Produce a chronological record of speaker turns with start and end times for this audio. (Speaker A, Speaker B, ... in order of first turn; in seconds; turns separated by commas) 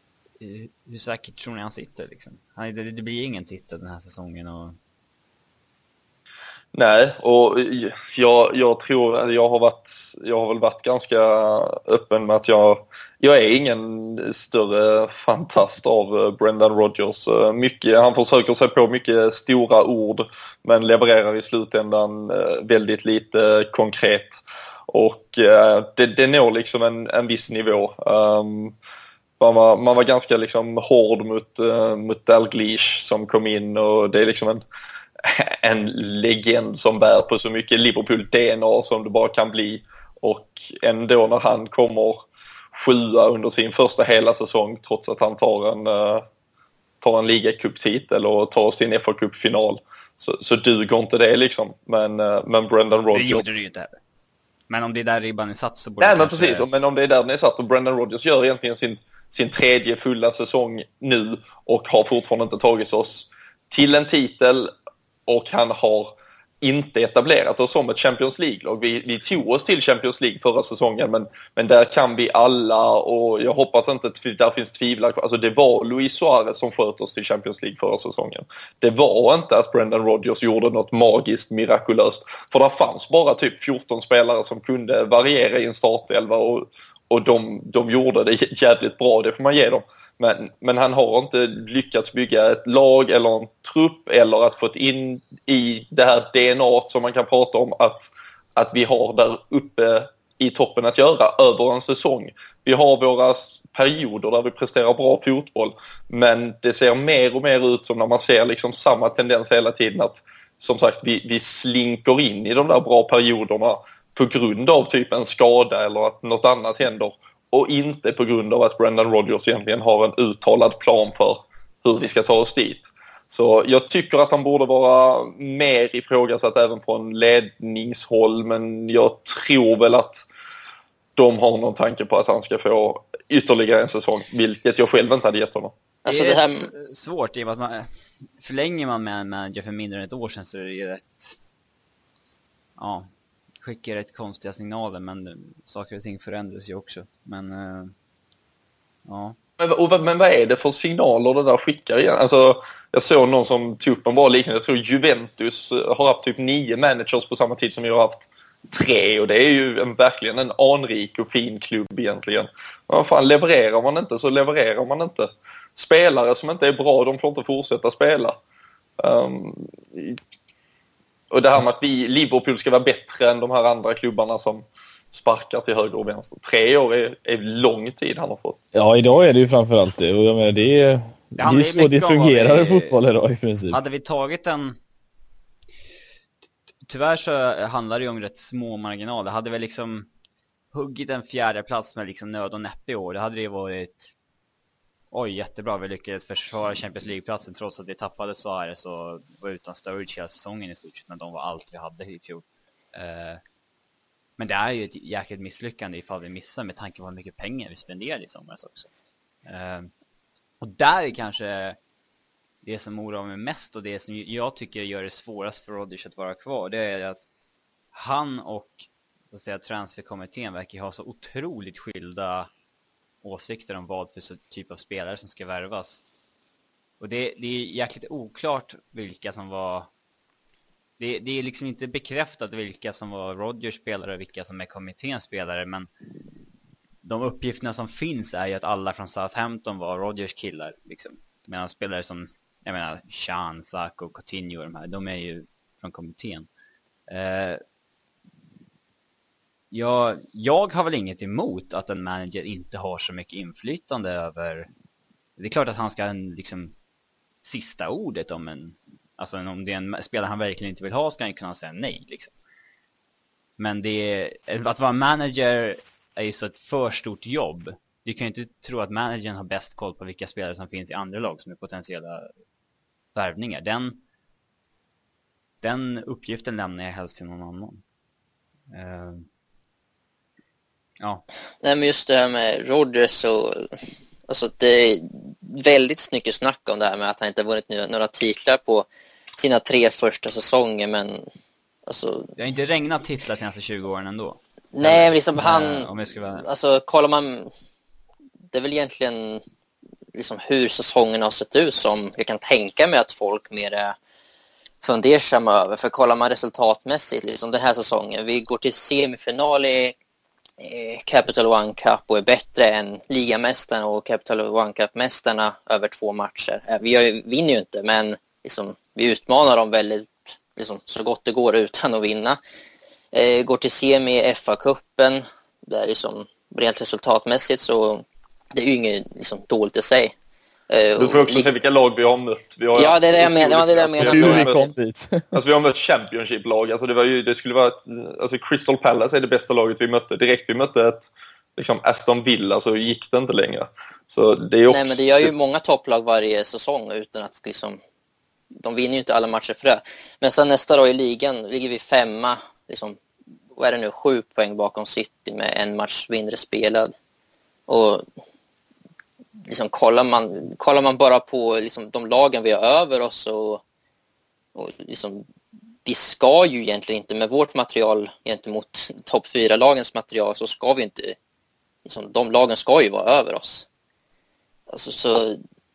Speaker A: 0.4-4.8, Speaker B: 6.7-24.4, Speaker B: 24.9-28.7, Speaker B: 29.4-34.6, Speaker B: 35.2-46.2, Speaker B: 47.0-53.4, Speaker A: 53.1-54.0, Speaker A: 54.7-56.7, Speaker B: 56.0-64.7, Speaker B: 65.3-130.2, Speaker B: 131.2-135.7, Speaker C: 136.0-136.7, Speaker A: 136.1-141.3, Speaker A: 142.8-143.1, Speaker A: 143.6-147.9, Speaker A: 149.1-149.3, Speaker B: 149.6-168.4, Speaker B: 169.0-170.2, Speaker B: 171.3-178.6, Speaker D: 178.7-183.8, Speaker A: 181.4-182.9, Speaker A: 183.7-184.8, Speaker A: 186.8-190.1, Speaker A: 190.7-194.1, Speaker A: 195.1-203.4, Speaker A: 204.4-208.9, Speaker A: 209.4-209.9, Speaker A: 210.6-211.8, Speaker A: 212.6-217.2, Speaker A: 217.9-222.5, Speaker A: 223.2-226.0, Speaker A: 227.0-229.9, Speaker A: 231.0-235.9, Speaker A: 237.0-246.5, Speaker A: 247.1-247.6, Speaker A: 249.7-254.7, Speaker A: 255.4-256.7, Speaker A: 257.4-262.3, Speaker A: 263.6-272.3, Speaker A: 273.1-274.0, Speaker A: 275.6-277.8, Speaker A: 278.7-279.2, Speaker C: 281.6-291.2, Speaker C: 291.9-292.3, Speaker A: 292.4-296.4, Speaker C: 294.7-295.9, Speaker C: 296.4-297.5, Speaker C: 298.5-299.4, Speaker C: 300.1-303.9, Speaker C: 304.8-309.9, Speaker C: 310.6-322.4, Speaker C: 323.1-330.1, Speaker C: 330.7-331.5, Speaker B: 331.0-334.7, Speaker C: 332.7-334.6, Speaker D: 334.0-335.3, Speaker B: 335.3-345.3, Speaker C: 344.7-347.8, Speaker C: 348.6-353.0, Speaker C: 353.5-356.9, Speaker C: 357.7-358.0, Speaker C: 359.5-363.6, Speaker C: 364.5-365.2, Speaker C: 365.9-371.1, Speaker C: 371.8-373.7, Speaker C: 374.7-375.4